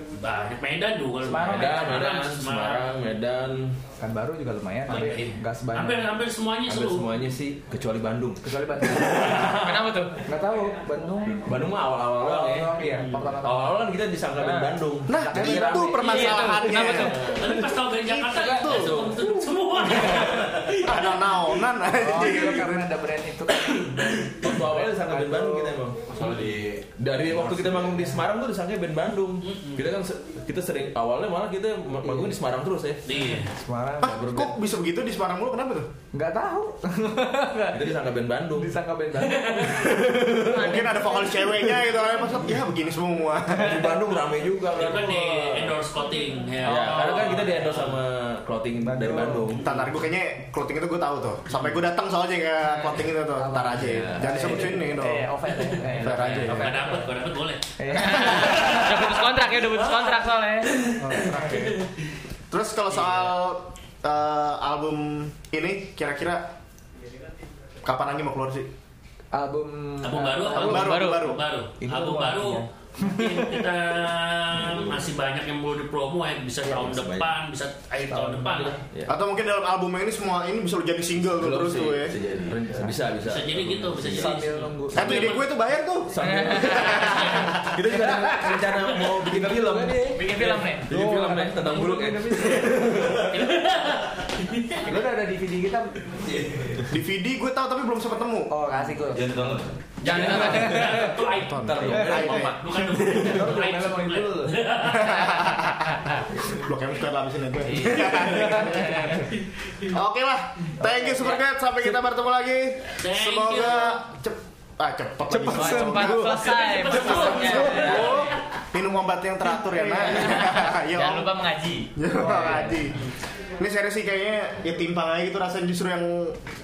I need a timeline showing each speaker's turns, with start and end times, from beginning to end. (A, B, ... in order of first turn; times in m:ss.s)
0:00.1-0:02.9 A
0:01.2-0:02.0 B
0:01.3-0:03.8 C
0:04.0-0:06.1 B
0:04.9-0:07.2 A
0:06.7-0:08.4 C
0:08.4-0:13.9 B
0:09.1-0:10.2 D
0:11.4-0:12.8 C
0:12.9-0:13.2 A
0:13.3-0:16.2 C
0:14.4-0:14.8 D
0:15.1-0:17.3 E
0:15.1-0:17.8 B
0:16.0-0:17.2 D
0:17.0-0:21.3 A
0:18.0-0:19.1 E
0:18.7-0:20.3 B
0:20.1-0:20.6 C
0:20.8-0:23.0 E
0:21.9-0:26.3 B
0:24.2-0:33.0 C
0:27.3-0:28.2 B
0:29.4-0:29.8 A
0:32.0-0:32.4 B
0:33.0-0:33.5 A
0:33.1-0:34.5 B
0:34.0-0:35.9 E
0:34.2-0:34.5 C
0:36.1-0:41.3 B
0:37.7-0:38.7 C
0:39.2-0:39.7 A
0:39.9-0:40.7 C
0:40.4-0:43.9 E
0:43.5-0:45.7 C
0:44.7-0:48.0 A
0:45.4-0:45.7 B
0:46.6-0:49.7 C
0:48.8-0:49.6 B
0:49.6-0:55.3 E
0:53.3-0:57.1 B
0:53.8-0:54.8 C
0:55.9-0:56.9 E
0:56.0-0:56.6 D
0:56.4-1:01.9 A
0:57.8-0:59.0 B
0:57.9-1:00.9 D
1:01.0-1:01.8 B
1:01.1-1:01.8 E
1:02.5-1:06.5 E
1:07.8-1:08.7 E
1:09.3-1:10.9 B
1:10.0-1:18.8 A
1:10.5-1:11.4 E
1:10.6-1:11.3 D
1:11.8-1:13.6 B
1:14.5-1:15.0 C
1:16.7-1:17.3 C
1:18.1-1:18.7 B
1:18.5-1:19.1 C
1:19.1-1:22.2 E
1:21.4-1:24.4 C
1:23.2-1:25.5 A
1:24.0-1:25.3 B
1:24.9-1:27.7 E
1:26.1-1:33.7 C
1:26.2-1:27.5 D
1:27.8-1:30.2 B
1:30.1-1:30.9 D
1:30.9-1:33.3 B
1:33.3-1:34.9 A
1:34.8-1:36.1 B
1:36.2-1:36.9 C
1:36.9-1:38.6 E
1:38.5-1:41.2 B
1:39.1-1:39.7 C
1:40.0-1:40.9 D
1:40.1-1:45.6 A
1:41.3-1:42.6 E
1:41.6-1:43.5 C
1:43.2-1:44.6 B
1:44.9-1:49.2 E
1:47.6-1:49.2 D
1:48.3-1:49.1 B
1:49.4-1:49.7 A
1:49.8-2:01.3 E
1:50.8-1:51.4 B
1:52.9-1:54.0 A
1:55.3-1:58.2 B
1:55.5-1:58.3 D
1:56.4-1:58.4 A
1:59.9-2:02.7 D
2:01.9-2:03.1 E
2:02.3-2:02.7 B
2:03.6-2:06.4 E